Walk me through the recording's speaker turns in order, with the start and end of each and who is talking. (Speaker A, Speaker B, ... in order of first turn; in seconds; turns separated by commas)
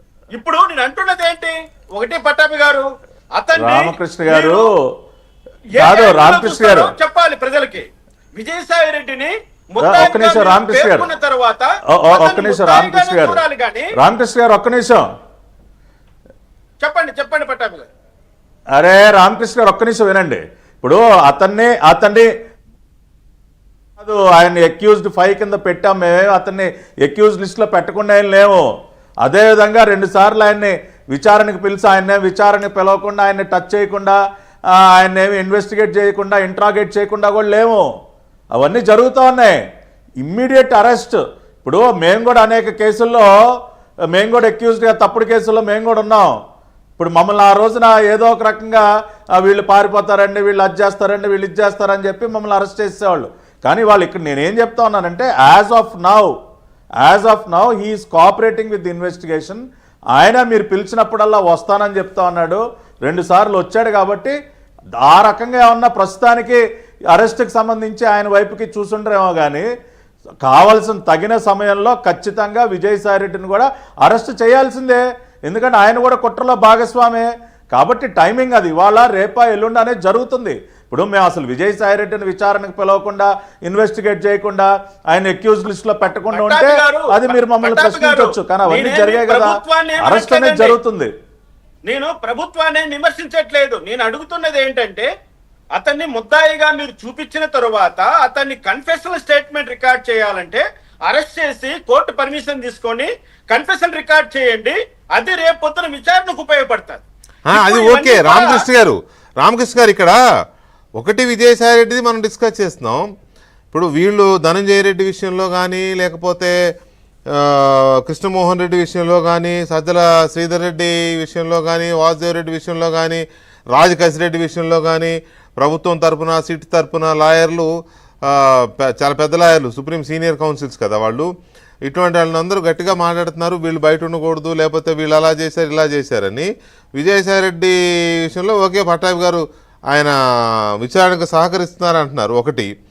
Speaker A: 0.3-2.9, Speaker A: 3.4-4.6, Speaker B: 3.5-4.7, Speaker B: 5.8-6.9, Speaker A: 5.8-13.9, Speaker B: 9.8-11.1, Speaker B: 11.9-13.4, Speaker B: 13.9-15.1, Speaker A: 16.8-17.9, Speaker B: 18.7-22.3, Speaker B: 24.0-28.7, Speaker B: 29.2-34.2, Speaker B: 34.7-37.9, Speaker B: 38.5-39.6, Speaker B: 40.2-43.3, Speaker B: 44.1-46.4, Speaker B: 47.0-56.3, Speaker B: 57.0-64.4, Speaker B: 65.0-69.7, Speaker B: 70.4-91.1, Speaker A: 86.3-90.8, Speaker A: 91.9-95.1, Speaker A: 95.7-108.7, Speaker C: 107.5-110.2, Speaker C: 111.0-113.1, Speaker C: 113.7-116.6, Speaker C: 117.3-127.7, Speaker C: 128.2-131.3, Speaker C: 131.8-140.1, Speaker C: 140.8-142.7